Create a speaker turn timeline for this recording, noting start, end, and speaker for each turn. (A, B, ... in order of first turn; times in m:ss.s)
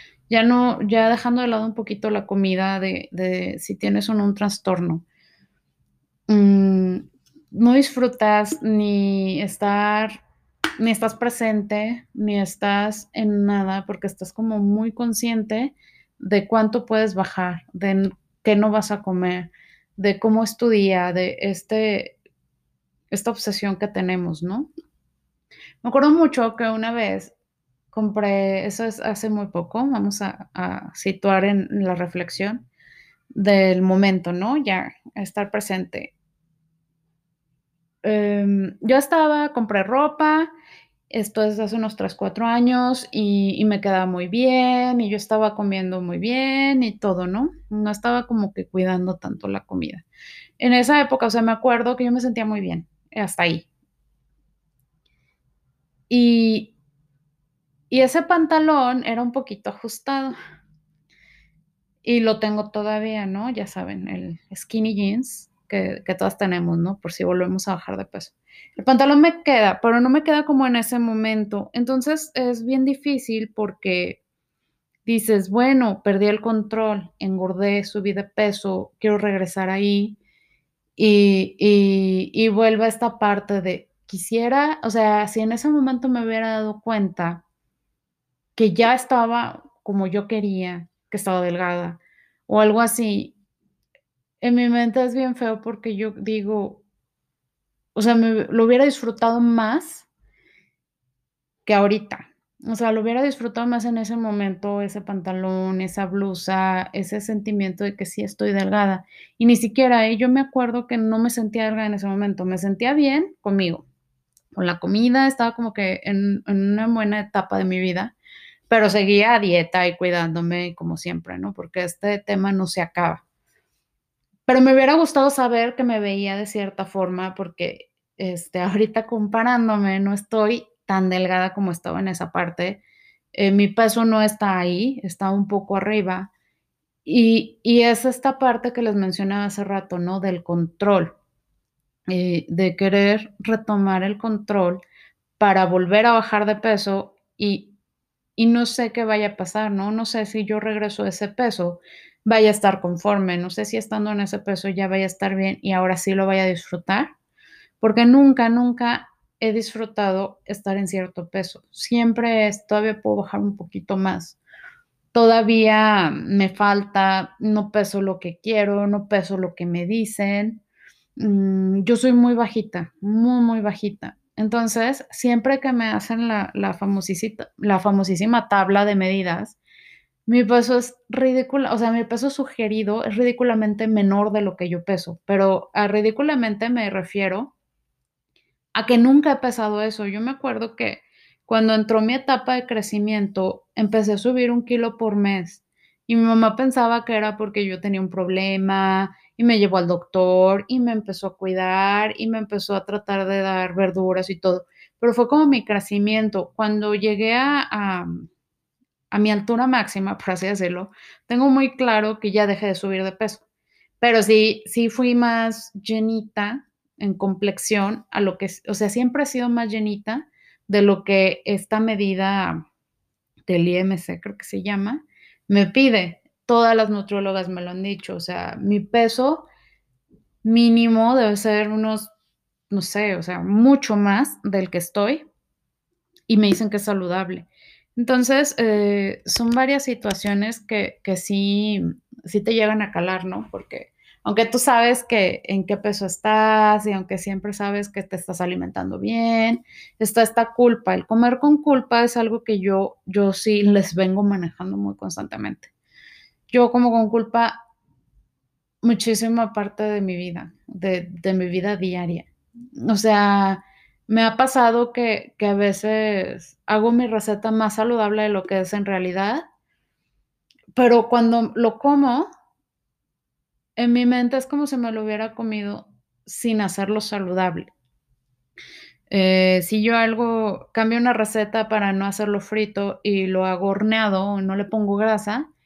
0:00.3-0:05.0 A
0:06.3-0:10.2 A
0:10.8-0:22.2 A
0:23.1-0:24.7 A
0:25.8-0:27.3 A
0:27.9-0:32.6 A
0:33.3-0:36.1 A
0:38.0-0:40.5 A
0:41.1-0:50.0 A
0:50.6-0:53.7 A
0:56.1-0:56.7 A
0:57.9-1:00.3 A
1:02.0-1:14.2 A
1:15.0-1:20.2 A
1:21.0-1:27.4 A
1:28.6-1:33.3 A
1:34.4-1:36.8 A
1:37.9-1:40.1 A
1:41.6-1:53.8 A
1:54.5-1:58.1 A
1:58.7-2:03.2 A
2:04.5-2:12.8 A
2:13.3-2:16.3 A
2:17.0-2:21.1 A
2:22.1-2:24.8 A
2:25.4-2:27.7 A
2:28.4-2:37.1 A
2:37.8-2:44.4 A
2:45.1-2:50.6 A
2:51.2-2:59.6 A
3:00.3-3:07.5 A
3:08.7-3:28.2 A
3:29.1-3:33.4 A
3:34.0-3:42.6 A
3:43.4-3:49.5 A
3:50.4-3:52.1 A
3:52.7-3:55.2 A
3:56.3-4:15.7 A
4:16.5-4:17.5 A
4:18.8-4:29.4 A
4:30.7-4:32.3 A
4:33.8-4:37.7 A
4:39.1-4:45.5 A